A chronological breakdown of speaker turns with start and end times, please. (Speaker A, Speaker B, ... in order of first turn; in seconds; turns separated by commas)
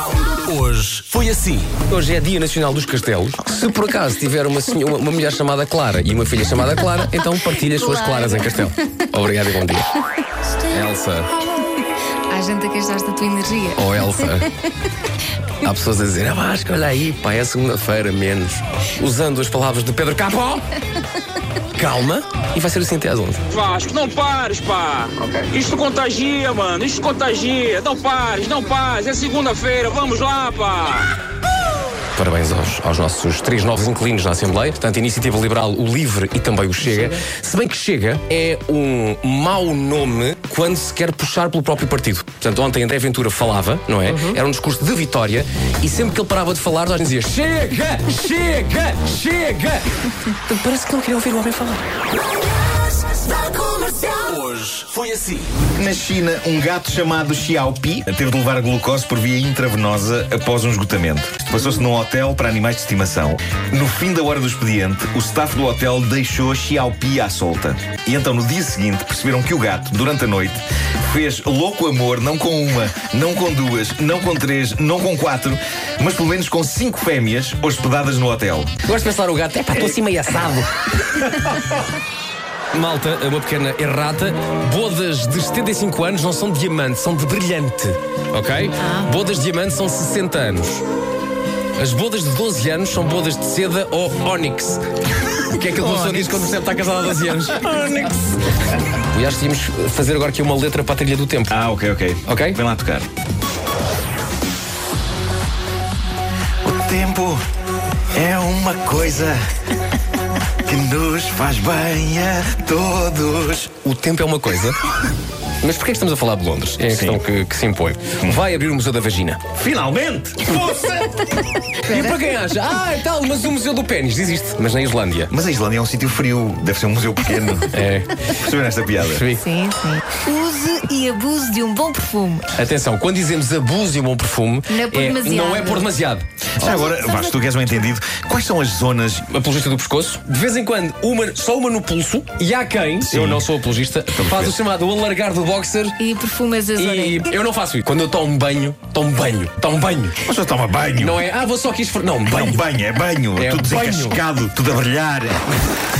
Speaker A: 0.4-1.7, Speaker B: 1.9-9.9, Speaker C: 7.6-8.7, Speaker B: 10.7-11.3, Speaker C: 12.3-14.3, Speaker B: 13.8-14.5, Speaker B: 15.6-20.6, Speaker B: 21.7-23.4, Speaker D: 23.5-31.1, Speaker B: 32.1-51.8, Speaker A: 52.7-55.5, Speaker E: 55.7-78.7, Speaker B: 78.8-81.8, Speaker B: 82.7-90.8, Speaker C: 88.8-89.1, Speaker B: 91.8-94.8, Speaker B: 95.4-98.2, Speaker C: 95.6-96.5, Speaker B: 98.9-101.5, Speaker E: 101.5-103.1, Speaker B: 102.2-102.6, Speaker E: 106.6-107.4, Speaker E: 108.1-109.4, Speaker E: 110.6-113.7, Speaker B: 113.8-114.8, Speaker B: 115.6-119.5, Speaker E: 116.9-117.2, Speaker E: 119.6-120.8, Speaker B: 120.5-125.3, Speaker C: 121.8-122.2, Speaker E: 125.3-127.7, Speaker B: 127.7-128.4, Speaker E: 128.3-129.2, Speaker B: 129.0-129.4, Speaker C: 129.3-132.5, Speaker B: 132.5-136.2, Speaker C: 134.7-135.9, Speaker E: 136.6-139.3, Speaker C: 136.6-137.4, Speaker B: 139.3-146.0, Speaker E: 143.1-143.4, Speaker E: 144.1-144.6, Speaker C: 146.0-147.3, Speaker B: 146.8-150.2, Speaker E: 150.2-151.2, Speaker B: 151.0-152.6, Speaker E: 152.2-155.4, Speaker B: 153.3-154.2